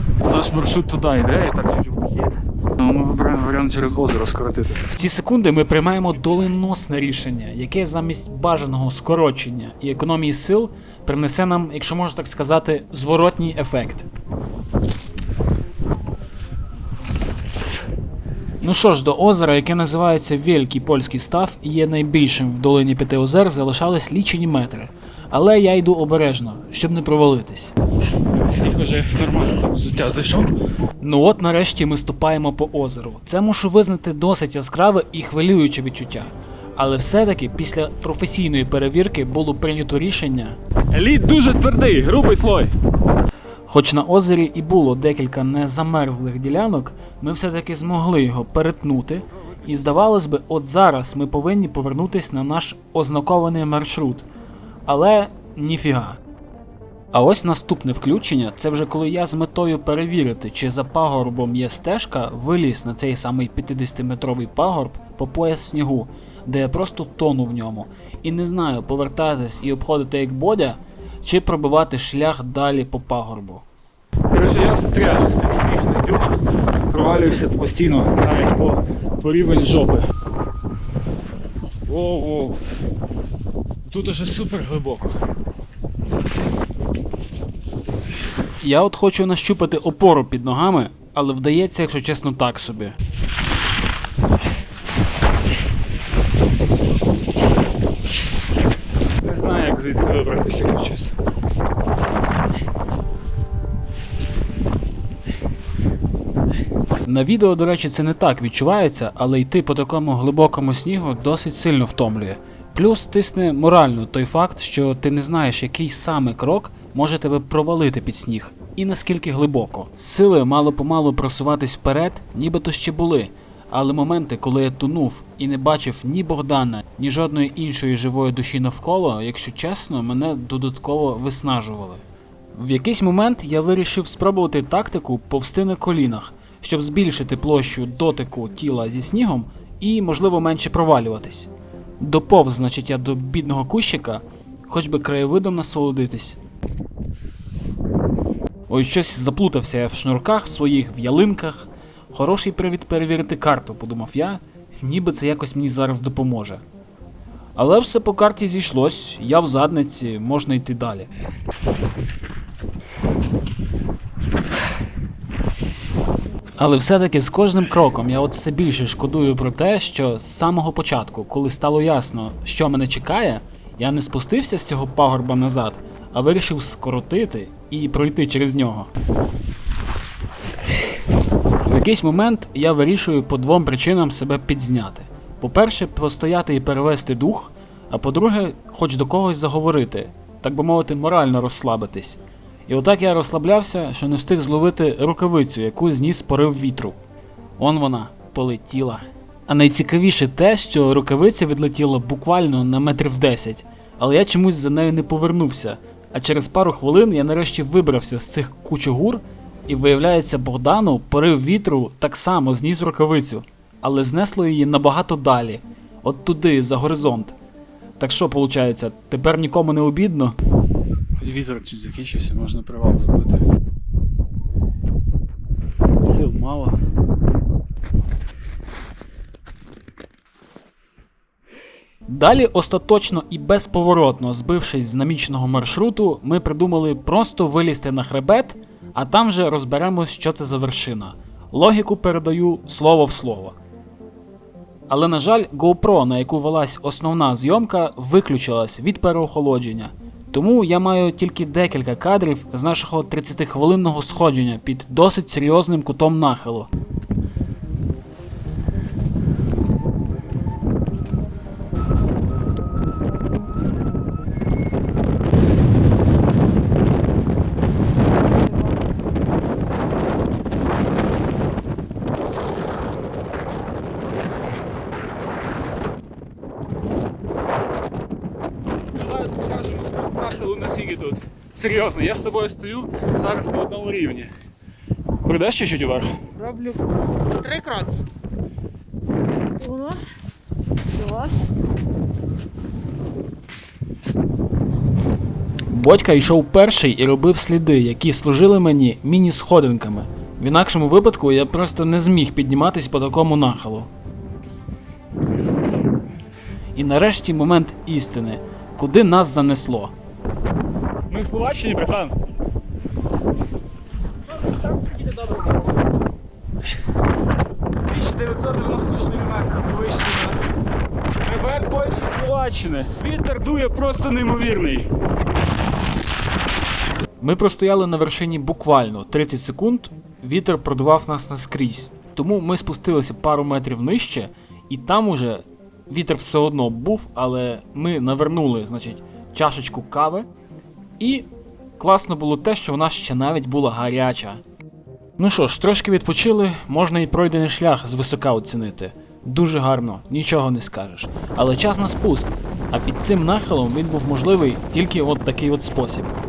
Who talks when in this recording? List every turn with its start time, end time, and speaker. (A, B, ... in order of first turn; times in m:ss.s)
0:00.3-0:04.8 A
0:00.4-0:01.1 B
0:03.9-0:14.1 B
0:18.6-0:27.7 B
0:28.4-0:30.5 A
0:31.0-0:40.6 B
0:40.9-0:42.7 A
0:43.7-0:54.3 B
0:54.9-0:56.2 B
0:57.1-1:13.6 B
1:14.3-1:16.4 A
1:14.4-1:14.6 B
1:16.9-1:20.0 B
1:16.9-1:20.1 A
1:21.9-1:22.6 A
1:23.9-1:25.2 A
1:28.6-1:33.0 B
1:39.2-1:41.1 A
1:47.0-2:12.0 B
2:12.5-2:26.4 B
2:28.7-2:36.6 B
2:37.6-2:41.1 B
2:46.6-2:58.9 B
3:01.6-3:17.0 B
3:17.6-3:37.4 B
3:38.0-3:40.4 B
3:41.2-3:43.4 A
3:41.2-3:43.4 B
3:46.0-3:46.8 B
3:52.1-4:03.6 B
4:04.9-4:16.7 B
4:39.0-4:44.3 B
4:39.1-4:40.9 A
4:44.0-4:44.3 A
4:45.2-4:46.1 B
4:46.4-4:46.8 C
4:47.4-4:48.0 C
4:49.6-4:50.0 C
4:50.9-4:51.5 C
4:55.7-5:03.9 B
5:06.7-5:09.9 B
5:11.1-5:12.2 A
5:11.1-5:11.8 B
5:14.6-5:15.7 A
5:17.9-5:20.4 A
5:17.9-5:20.2 B
5:21.2-5:24.9 A
5:21.3-5:24.8 B
5:27.2-5:40.3 B
5:41.0-5:44.4 B
5:45.2-5:56.1 B